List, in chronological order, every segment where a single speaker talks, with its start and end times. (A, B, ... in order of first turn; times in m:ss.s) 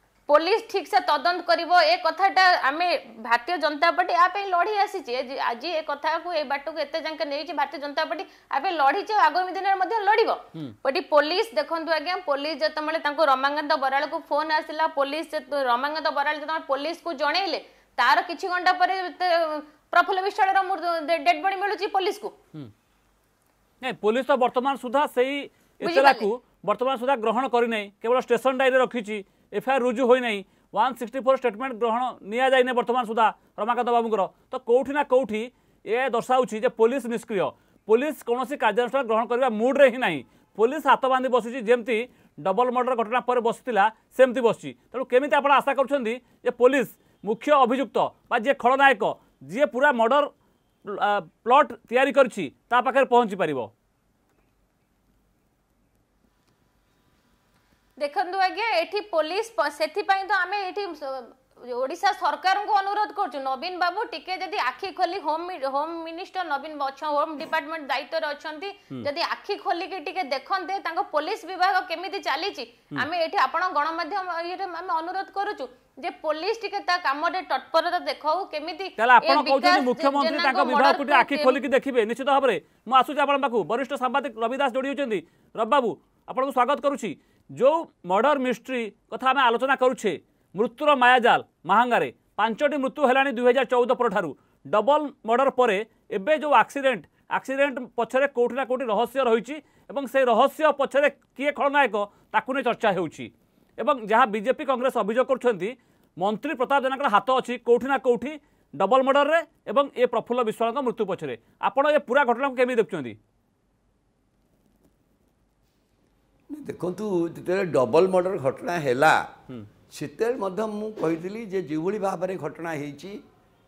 0:00.3-0:22.3 A
0:23.8-0:50.3 B
0:25.8-0:26.3 A
0:50.8-0:53.7 B
0:58.0-1:21.6 A
1:19.0-1:53.2 B
1:56.5-1:59.3 C
1:59.9-2:03.2 C